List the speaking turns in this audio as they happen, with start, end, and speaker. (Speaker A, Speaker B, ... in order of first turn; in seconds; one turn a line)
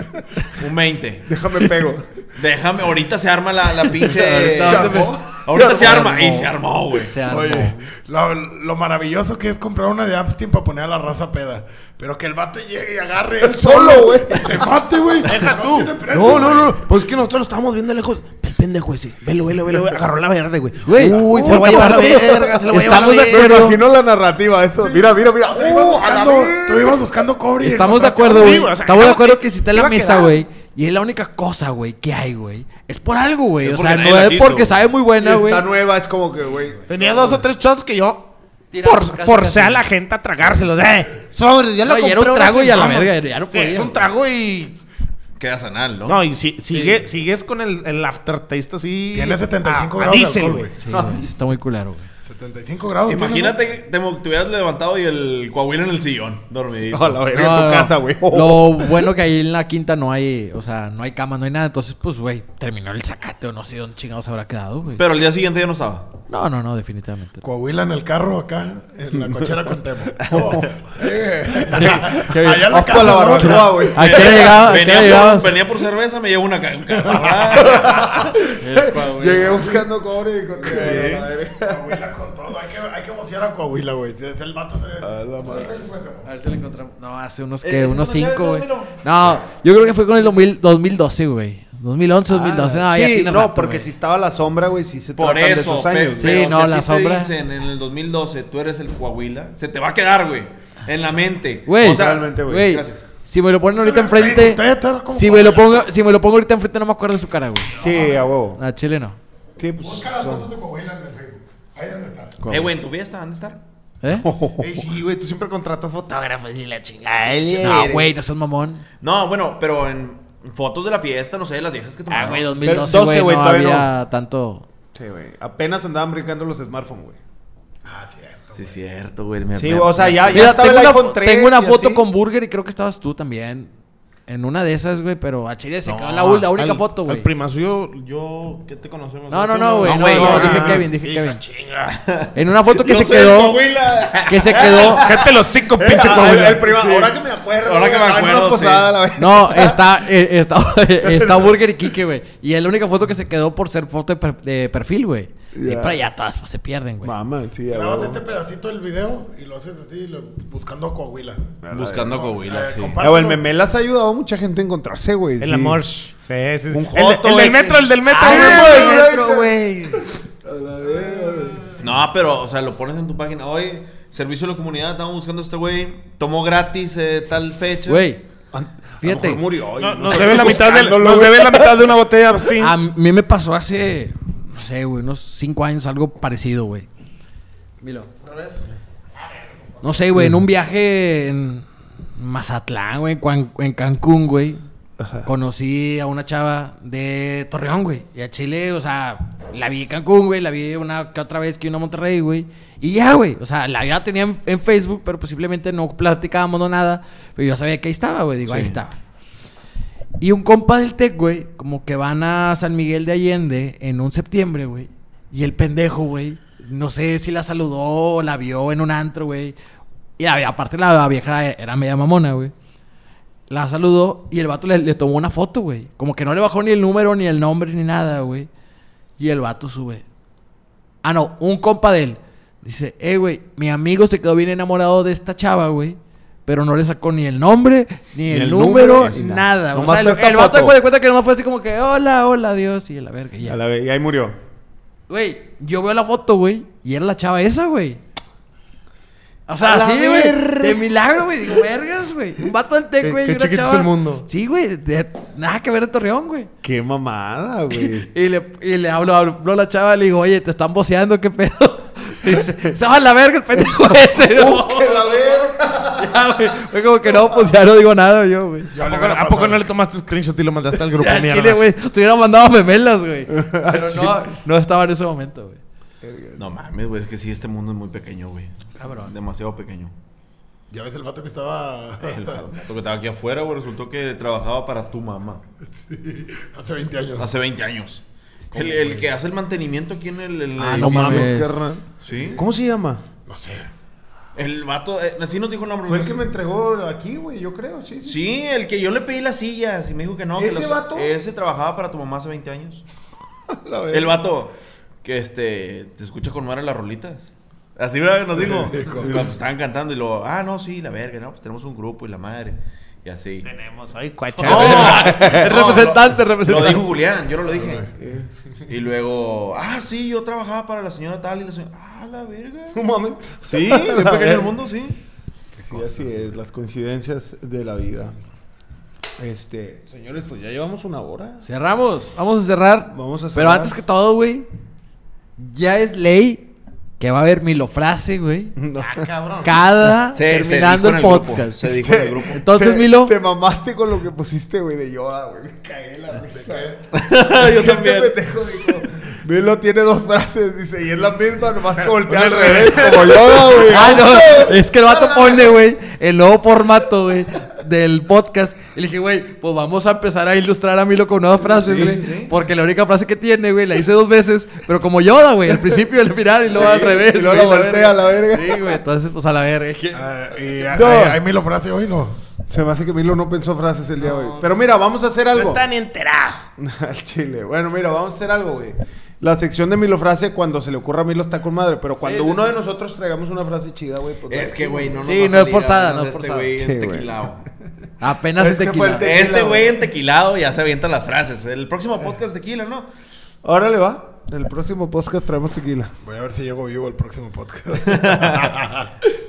Speaker A: 0.5-1.3
Speaker B: 1.3-2.1
Speaker A: 2.4-7.1
Speaker C: 4.1-7.9
Speaker B: 4.6-6.0
Speaker B: 7.3-7.7
Speaker D: 8.0-16.9
Speaker B: 13.4-14.7
Speaker E: 15.2-23.6
Speaker C: 20.8-23.8
Speaker B: 21.0-27.0
Speaker D: 24.8-28.6
Speaker C: 27.6-35.7
Speaker E: 28.2-30.4
Speaker A: 33.6-34.8
Speaker B: 35.2-37.4
Speaker C: 36.3-36.8
Speaker E: 36.9-44.8
Speaker C: 38.7-39.9
Speaker C: 41.8-44.1
Speaker A: 45.4-46.2
Speaker E: 46.1-50.7
Speaker D: 49.1-50.7
Speaker C: 50.8-52.1
Speaker B: 50.9-51.3
Speaker D: 52.2-53.6
Speaker A: 53.0-57.3
Speaker E: 56.9-58.9
Speaker C: 57.3-65.0
Speaker A: 64.9-66.1
Speaker C: 66.3-67.4
Speaker D: 67.4-74.0
Speaker B: 70.2-74.7
Speaker C: 71.7-75.5
Speaker A: 74.0-78.3
Speaker B: 77.6-82.0
Speaker C: 78.5-79.7
Speaker D: 80.6-86.3
Speaker A: 80.7-81.2
Speaker B: 85.0-85.8
Speaker C: 86.2-93.9
Speaker A: 87.6-89.0
Speaker B: 92.3-96.5
Speaker A: 95.1-103.0
Speaker C: 96.2-97.3
Speaker C: 101.7-107.7
Speaker B: 101.8-102.8
Speaker D: 103.7-105.9
Speaker D: 107.7-108.3
Speaker B: 107.8-108.6
Speaker C: 108.6-109.2
Speaker B: 109.6-110.5
Speaker D: 109.8-112.4
Speaker C: 112.4-112.7
Speaker A: 112.5-113.6
Speaker C: 114.0-114.3
Speaker B: 114.1-114.7
Speaker E: 114.6-118.1
Speaker C: 117.6-118.8
Speaker B: 117.6-118.0
Speaker A: 119.0-122.5
Speaker C: 122.1-124.6
Speaker B: 122.6-123.9
Speaker B: 124.9-127.2
Speaker D: 127.8-128.8
Speaker A: 128.5-130.6
Speaker B: 129.5-132.1
Speaker C: 130.3-133.7
Speaker C: 134.3-137.3
Speaker E: 135.8-142.0
Speaker C: 139.3-141.4
Speaker A: 139.8-140.6
Speaker B: 140.1-140.8
Speaker A: 141.9-145.2
Speaker C: 142.3-143.6
Speaker C: 144.2-145.0
Speaker E: 144.8-146.7
Speaker B: 145.8-149.8
Speaker A: 146.1-148.9
Speaker C: 149.2-157.1
Speaker B: 151.0-151.6
Speaker B: 155.5-156.0
Speaker B: 157.0-158.2
Speaker D: 157.7-161.6
Speaker B: 161.6-162.3
Speaker A: 161.7-163.0
Speaker D: 162.1-163.4
Speaker B: 163.0-165.8
Speaker E: 165.4-169.9
Speaker B: 166.7-169.5
Speaker C: 168.1-170.0
Speaker B: 170.4-171.9
Speaker D: 171.0-171.5
Speaker A: 171.8-178.0
Speaker C: 177.8-178.2
Speaker B: 178.5-181.8
Speaker C: 179.0-179.4
Speaker E: 179.8-182.7
Speaker C: 182.6-186.9
Speaker C: 187.8-188.1
Speaker E: 188.2-188.7
Speaker E: 189.8-190.1
Speaker C: 189.8-194.6
Speaker B: 195.0-195.3
Speaker C: 195.2-208.9
Speaker A: 208.4-208.8
Speaker C: 210.2-219.6
Speaker C: 220.2-222.5
Speaker C: 223.5-228.5
Speaker C: 229.2-230.0
Speaker C: 231.0-243.6
Speaker B: 238.3-240.8
Speaker B: 243.4-244.4
Speaker C: 245.1-248.0
Speaker C: 249.5-256.5
Speaker B: 249.6-250.8
Speaker E: 253.0-254.2
Speaker B: 256.6-258.1
Speaker C: 257.7-268.7
Speaker B: 264.2-266.2
Speaker D: 268.7-269.6
Speaker E: 268.8-271.6
Speaker C: 270.9-275.6
Speaker B: 273.3-274.3
Speaker B: 276.0-276.4
Speaker A: 276.4-279.9
Speaker C: 278.8-279.1
Speaker D: 280.7-282.4
Speaker A: 282.0-285.4
Speaker D: 285.9-287.3
Speaker A: 287.2-291.4
Speaker C: 288.5-289.1
Speaker C: 290.6-291.6
Speaker B: 290.7-293.0
Speaker A: 292.0-292.4
Speaker D: 293.3-293.7
Speaker A: 294.3-296.2
Speaker B: 295.9-298.2
Speaker A: 298.0-302.8
Speaker B: 300.3-301.1
Speaker B: 303.5-304.2
Speaker A: 303.9-313.5
Speaker B: 308.6-309.3
Speaker E: 313.4-315.1
Speaker A: 314.4-317.9
Speaker C: 314.4-316.9
Speaker B: 314.9-315.4
Speaker D: 317.5-317.9
Speaker B: 317.7-318.3
Speaker A: 318.7-322.8
Speaker B: 322.7-324.6
Speaker A: 323.5-324.9
Speaker D: 325.6-326.1
Speaker B: 325.6-328.1
Speaker B: 329.2-331.4
Speaker C: 331.4-334.5
Speaker B: 332.9-333.8
Speaker C: 335.4-338.5
Speaker B: 338.6-339.1
Speaker E: 338.8-339.6
Speaker C: 339.4-341.7
Speaker A: 340.1-342.4
Speaker B: 341.6-355.5
Speaker C: 342.3-343.1
Speaker D: 346.3-346.8
Speaker A: 346.9-348.1
Speaker E: 352.1-353.1
Speaker C: 353.6-370.1
Speaker A: 361.6-362.3
Speaker B: 366.5-368.8
Speaker D: 369.9-372.2
Speaker C: 370.6-371.2
Speaker B: 372.5-375.6
Speaker E: 374.1-374.4
Speaker E: 375.3-376.5
Speaker B: 376.6-385.0
Speaker C: 382.0-382.5
Speaker A: 384.3-387.4
Speaker C: 385.0-386.5
Speaker B: 386.6-387.3
Speaker C: 388.0-389.1
Speaker B: 388.4-389.9
Speaker A: 389.0-392.9
Speaker B: 393.4-395.9
Speaker D: 396.0-398.9
Speaker A: 397.9-398.5